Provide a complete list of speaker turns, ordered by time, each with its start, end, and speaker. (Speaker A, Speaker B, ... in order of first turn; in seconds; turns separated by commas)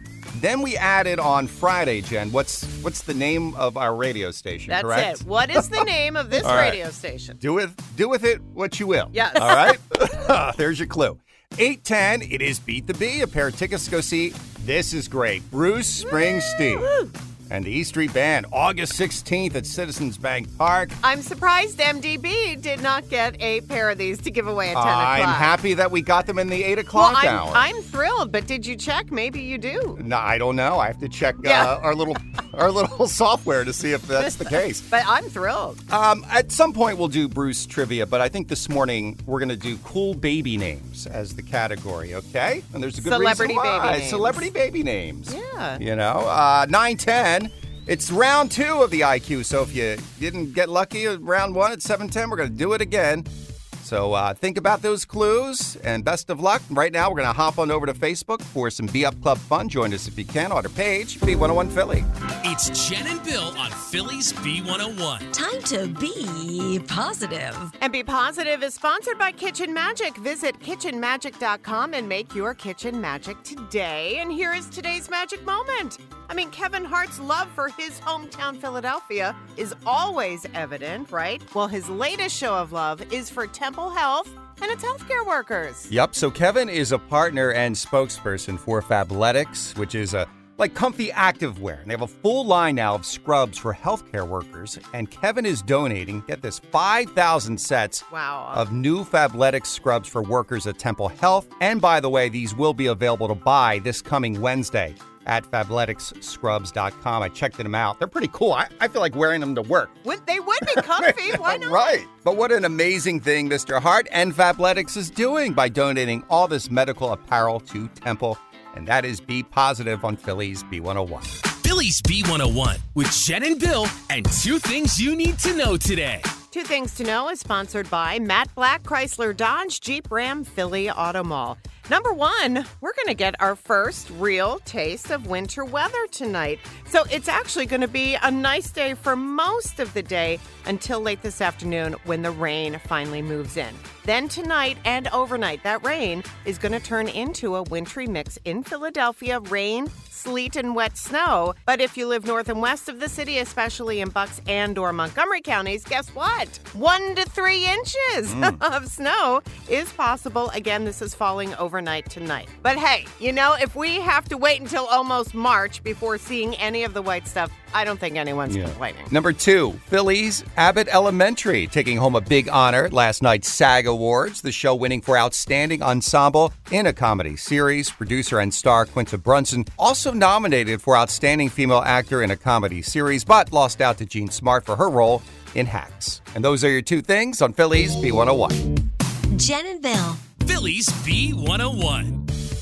Speaker A: 0.3-5.8, Speaker B: 4.7-7.4, Speaker A: 6.4-6.8, Speaker A: 7.4-16.9, Speaker B: 9.1-9.8, Speaker B: 16.1-17.0, Speaker A: 17.5-21.0, Speaker B: 21.0-25.5, Speaker A: 24.7-27.7, Speaker B: 26.9-30.0, Speaker A: 30.0-34.9, Speaker B: 31.4-31.7, Speaker B: 34.2-35.8, Speaker A: 35.9-53.3, Speaker B: 43.0-44.4, Speaker B: 45.3-45.8, Speaker A: 53.8-62.1, Speaker C: 62.4-65.3, Speaker D: 65.3-67.7, Speaker B: 67.8-85.9, Speaker A: 85.9-110.0, Speaker B: 98.1-98.7, Speaker B: 110.0-112.0, Speaker A: 110.7-121.3, Speaker C: 121.6-126.3, Speaker B: 126.5-169.1, Speaker A: 158.3-158.6, Speaker A: 168.5-188.7, Speaker D: 189.3-190.2, Speaker C: 190.4-192.2